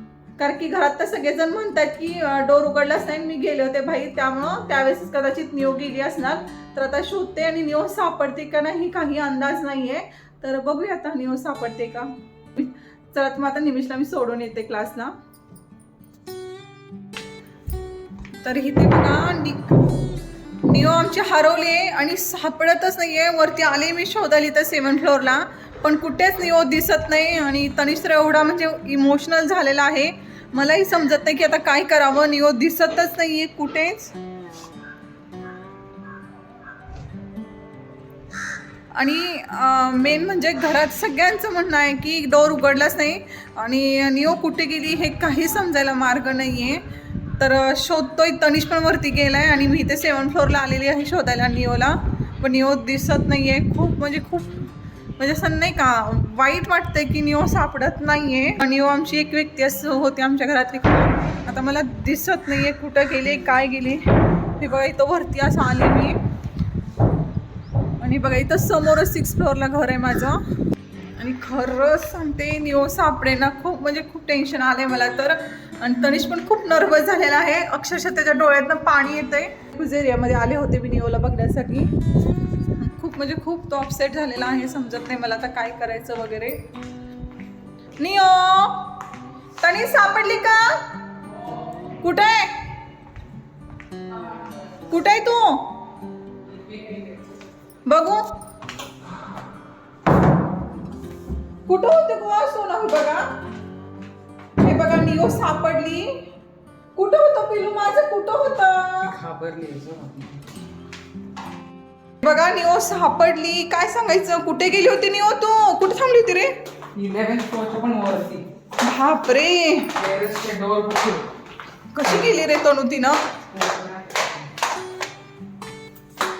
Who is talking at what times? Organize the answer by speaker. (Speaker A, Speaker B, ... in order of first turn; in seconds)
Speaker A: 0.4-15.2, 18.4-19.8, 20.6-34.2, 38.9-46.9, 47.4-54.5, 55.2-66.2, 68.0-70.4, 71.2-81.9, 82.7-86.7, 88.0-89.1, 89.6-91.0, 91.9-92.7, 94.9-95.8, 97.8-98.3, 101.7-103.3, 104.6-106.3, 107.0-109.2, 112.2-116.7, 118.8-120.0, 121.9-123.3
Speaker B: 96.6-97.2, 109.0-110.4, 116.9-118.5, 120.0-121.3, 123.5-124.3